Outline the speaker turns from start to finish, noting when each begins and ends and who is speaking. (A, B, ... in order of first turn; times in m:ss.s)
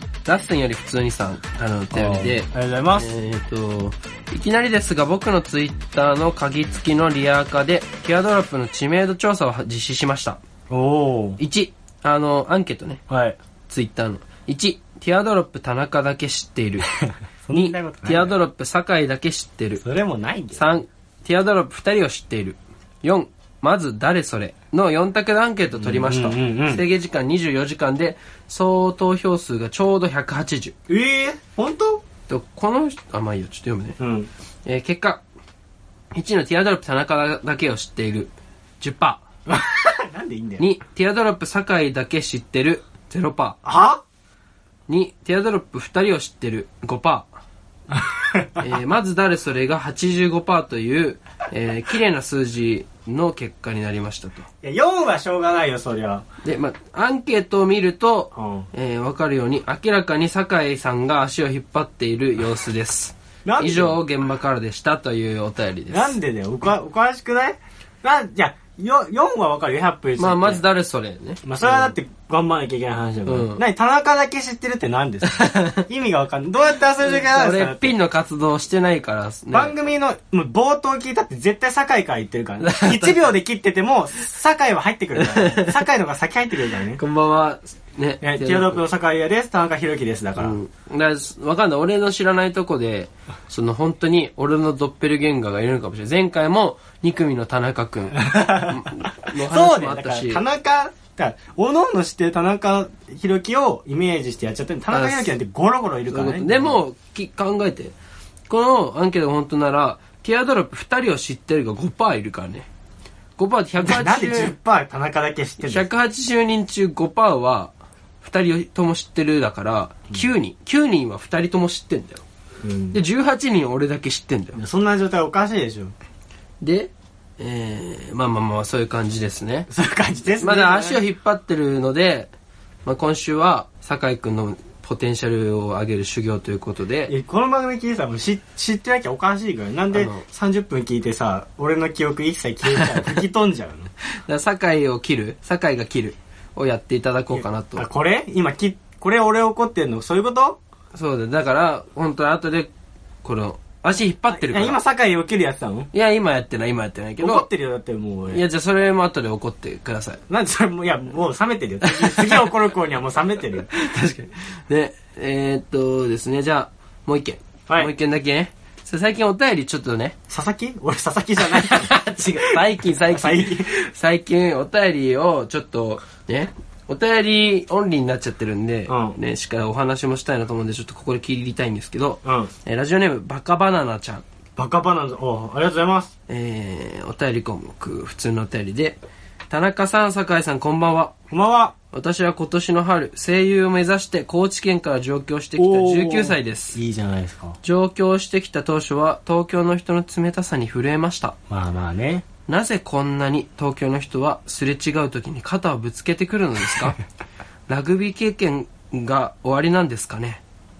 0:00.2-0:10.4 A
0:01.9-0:03.1 B
0:10.7-0:11.4 B
0:11.4-0:13.0 A
0:13.1-0:13.4 B
0:13.7-0:16.9 A
0:17.0-0:18.4 B
0:17.5-0:19.8 A
0:19.8-0:20.7 B
0:20.6-0:30.8 A
0:25.8-0:26.8 B
0:30.9-0:32.0 B
0:32.3-0:34.0 A
0:34.0-0:34.3 B
0:34.6-0:35.2 A
0:36.1-0:39.2 A
0:39.5-0:40.7 B
0:40.6-0:43.6 A
0:43.6-0:44.0 B
0:44.9-0:47.3 A
0:47.9-0:48.6 B
0:48.6-0:54.5 A
0:54.6-0:56.3 B
0:56.4-1:06.2 A
0:58.4-0:58.7 B
1:03.4-1:04.0 B
1:05.9-1:10.6 B
1:10.2-1:11.9 A
1:11.4-1:17.9 B
1:13.3-1:13.6 A
1:15.3-1:15.8 A
1:17.0-1:19.7 A
1:19.5-1:27.0 B
1:22.6-1:23.4 A
1:25.2-1:25.8 A
1:27.0-1:28.8 A
1:28.2-1:30.6 B
1:30.4-1:40.4 A
1:38.2-1:46.8 B
1:44.9-1:45.3 A
1:46.1-1:47.9 A
1:48.5-1:52.7 A
1:53.4-1:54.6 A
1:53.8-1:55.9 B
1:55.6-2:02.2 A
2:02.6-2:03.0 B
2:02.9-2:04.6 A
2:04.6-2:05.9 B
2:06.6-2:09.7 A
2:09.7-2:11.0 B
2:10.4-2:12.3 A
2:12.8-2:17.1 A
2:17.1-2:23.9 B
2:19.9-2:20.2 A
2:22.7-2:23.2 A
2:24.1-2:27.9 A
2:27.4-2:30.6 B
2:30.9-2:32.7 A
2:33.2-2:34.8 A
2:34.3-2:35.9 B
2:35.9-2:37.5 A
2:37.2-2:38.4 B
2:38.3-2:40.2 A
2:40.3-2:43.7 B
2:41.8-2:42.5 A
2:43.7-2:50.2 A
2:50.3-2:53.9 B
2:51.4-3:04.2 A
2:58.9-2:59.2 B
3:02.2-3:02.5 B
3:04.6-3:06.1 B
3:06.3-3:09.0 A
3:09.5-3:11.1 A
3:11.3-3:11.8 B
3:11.9-3:16.8 A
3:15.6-3:17.6 B
3:17.6-3:21.4 A
3:21.5-3:22.2 B
3:22.5-3:27.0 A
3:27.7-3:30.4 A